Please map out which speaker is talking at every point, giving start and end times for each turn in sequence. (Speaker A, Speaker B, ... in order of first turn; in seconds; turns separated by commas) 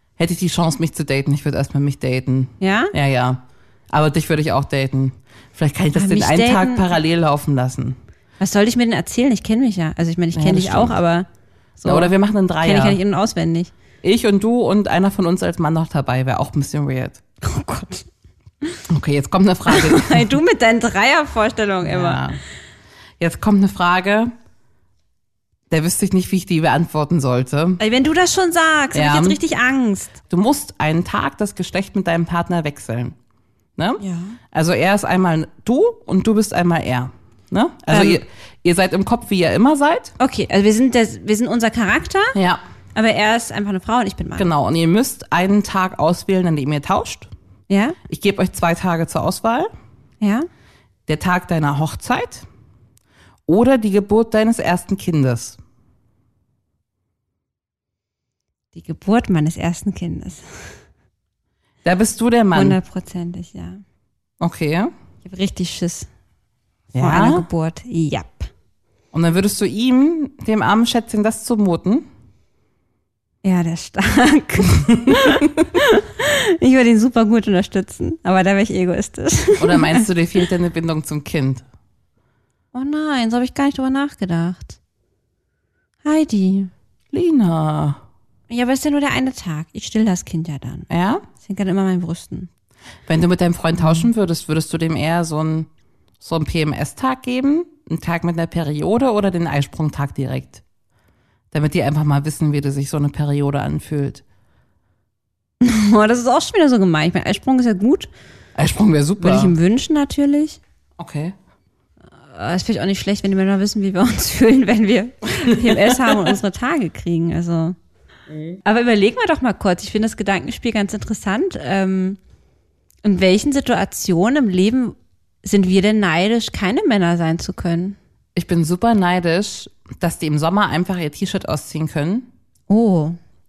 Speaker A: 0.2-8.0, Speaker B: 2.6-2.9, Speaker B: 5.9-6.9, Speaker B: 8.4-11.3, Speaker A: 10.3-11.0, Speaker B: 11.8-13.7, Speaker A: 11.8-13.0, Speaker A: 14.0-17.2, Speaker B: 17.4-18.1, Speaker A: 18.9-20.4, Speaker B: 19.7-22.2, Speaker A: 21.8-22.4, Speaker A: 23.2-24.3, Speaker A: 25.7-27.8, Speaker B: 27.8-30.1, Speaker A: 28.9-29.4, Speaker A: 30.3-33.1, Speaker A: 33.8-40.1, Speaker B: 34.0-34.4, Speaker B: 37.9-38.2, Speaker B: 40.2-42.4, Speaker A: 42.3-42.6, Speaker B: 42.9-44.5, Speaker A: 44.4-47.3, Speaker B: 47.7-48.0, Speaker A: 48.1-49.7, Speaker B: 50.2-50.5, Speaker A: 51.1-52.5, Speaker A: 53.5-55.6, Speaker B: 58.7-60.8, Speaker A: 61.8-62.8, Speaker B: 62.5-63.8, Speaker A: 64.4-64.9, Speaker B: 65.2-66.1, Speaker A: 66.9-67.5, Speaker B: 67.0-68.5, Speaker A: 69.1-72.1, Speaker B: 73.4-80.1, Speaker A: 74.9-75.4, Speaker A: 79.6-81.6, Speaker B: 82.7-84.8, Speaker B: 86.0-86.7, Speaker A: 87.1-88.0, Speaker B: 88.5-92.5, Speaker A: 90.9-91.2, Speaker A: 93.1-95.7, Speaker B: 93.8-94.0, Speaker A: 96.2-100.6, Speaker A: 101.5-104.2, Speaker B: 105.6-108.1, Speaker A: 108.5-109.5, Speaker B: 109.2-110.6, Speaker A: 111.0-111.3, Speaker B: 112.3-117.8, Speaker A: 115.5-116.2, Speaker B: 118.6-122.2, Speaker B: 123.0-128.0, Speaker A: 128.3-132.3, Speaker B: 132.7-133.2